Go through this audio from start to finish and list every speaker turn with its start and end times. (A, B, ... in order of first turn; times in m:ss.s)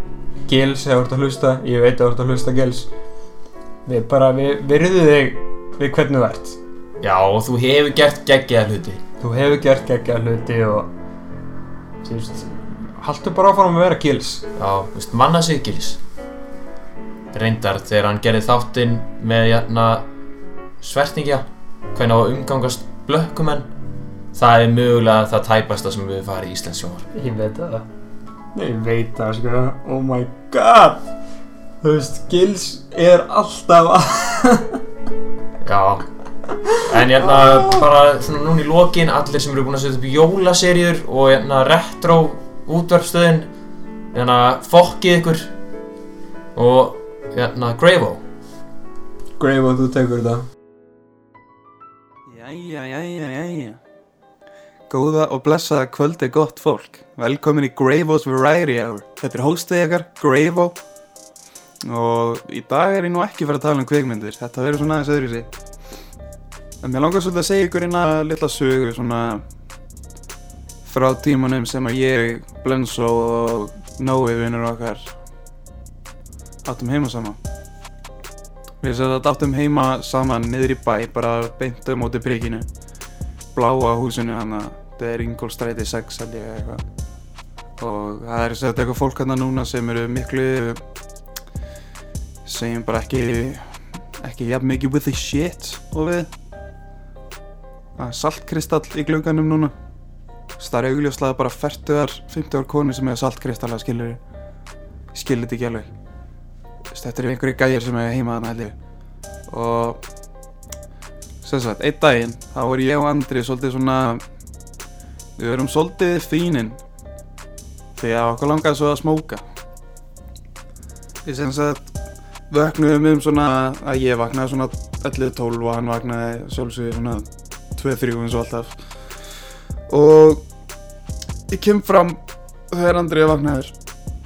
0:00.4-0:02.9 A
0:03.8-0:06.6 A
0:07.0-0:09.0 B
0:09.2-0:10.9 A
0:12.0-0:14.4 A
0:14.6-0:16.0 B
0:17.3-0:20.1 B
0:20.8-0:23.7 B
0:24.3-0:27.1 B
0:27.1-0:27.8 A
0:28.5-0:31.0 A
0:31.8-0:34.8 A
0:35.6-0:36.0 B
0:36.6-0:37.8 A
0:36.8-0:43.5 B
0:44.1-0:45.5 B
0:46.5-0:48.2 B
0:49.4-0:50.5 A
0:52.3-0:53.8 C
0:54.9-1:00.8 C
1:01.8-1:05.5 C
1:06.8-1:09.4 C
1:10.8-1:15.1 C
1:16.6-1:17.4 C
1:18.8-1:22.7 C
1:23.5-1:26.8 C
1:27.8-1:30.8 C
1:32.4-1:33.6 C
1:34.2-1:36.3 C
1:38.0-1:39.7 C
1:40.6-1:44.2 C
1:45.1-1:45.9 C
1:46.9-1:48.7 C
1:49.5-1:50.0 C
1:51.4-1:54.2 C
1:55.4-1:56.8 C
1:58.0-1:59.4 C
2:01.2-2:01.9 C
2:02.5-2:08.7 C
2:09.9-2:10.4 C
2:11.5-2:13.7 C